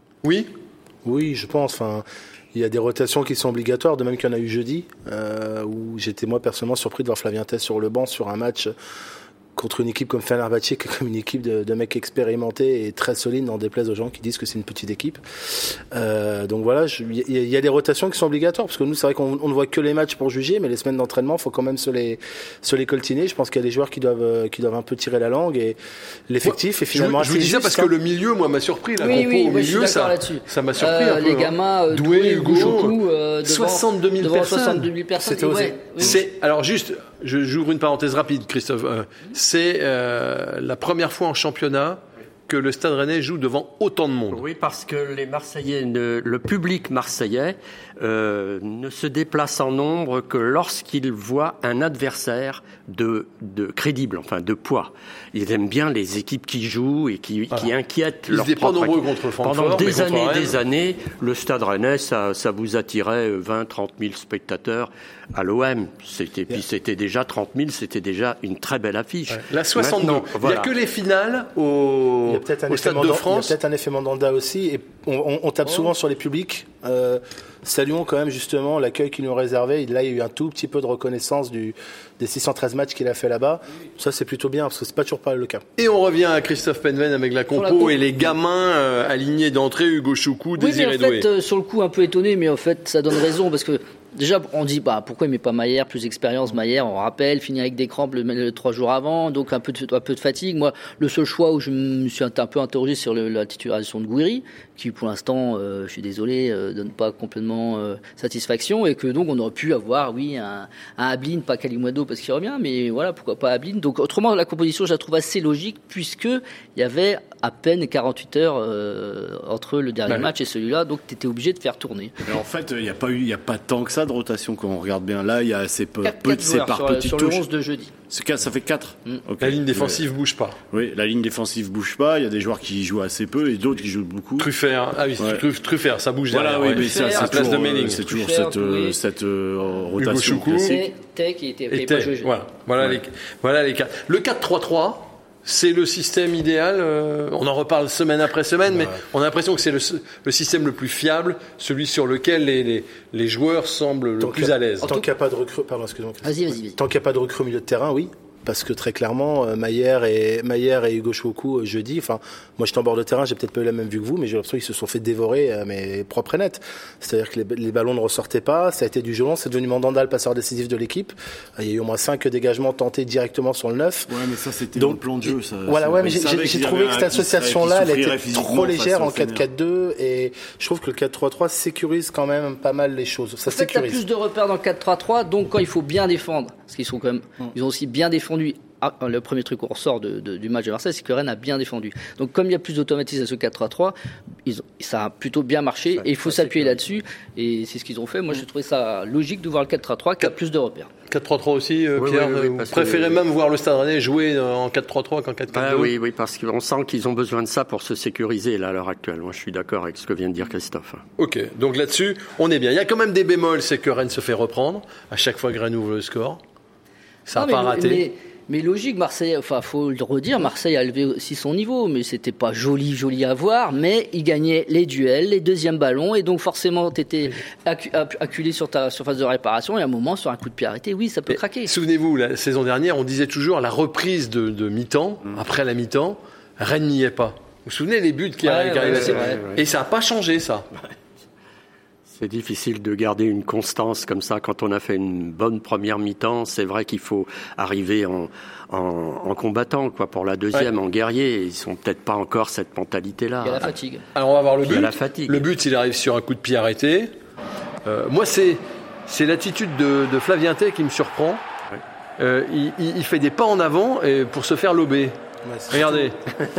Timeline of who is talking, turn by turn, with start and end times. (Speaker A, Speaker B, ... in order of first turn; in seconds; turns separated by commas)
Speaker A: 0.2-0.5, Speaker B: 1.0-8.7, Speaker B: 9.6-25.8, Speaker B: 26.3-27.9, Speaker A: 26.4-34.9, Speaker C: 29.0-36.2, Speaker B: 35.2-36.2, Speaker A: 36.0-44.5, Speaker D: 44.3-70.7, Speaker A: 58.3-60.6, Speaker A: 69.3-73.5, Speaker B: 72.3-85.6, Speaker A: 85.8-91.3, Speaker C: 87.5-88.0, Speaker C: 90.6-122.2, Speaker E: 122.2-127.4, Speaker C: 126.0-127.9, Speaker E: 128.1-130.0, Speaker A: 129.4-130.6, Speaker E: 130.7-134.5, Speaker A: 134.4-138.1, Speaker E: 135.2-135.4, Speaker E: 136.3-140.8, Speaker C: 136.7-139.0, Speaker A: 140.0-140.8, Speaker C: 140.6-142.3, Speaker A: 141.7-154.9, Speaker B: 154.2-174.1, Speaker C: 156.2-156.8, Speaker E: 174.1-179.4, Speaker B: 174.8-184.0, Speaker C: 183.5-193.9, Speaker C: 194.5-200.9, Speaker D: 196.2-196.7, Speaker A: 201.1-205.9, Speaker D: 202.0-203.2, Speaker D: 205.5-211.0, Speaker A: 211.2-216.4, Speaker A: 217.3-218.0, Speaker C: 217.4-231.7, Speaker A: 231.3-240.7, Speaker C: 238.4-239.4, Speaker D: 239.2-239.6, Speaker D: 242.1-253.7, Speaker C: 253.4-254.0, Speaker A: 254.2-257.1, Speaker D: 254.6-255.5, Speaker A: 257.9-261.4, Speaker A: 262.2-265.2, Speaker B: 265.4-266.1, Speaker A: 265.7-266.2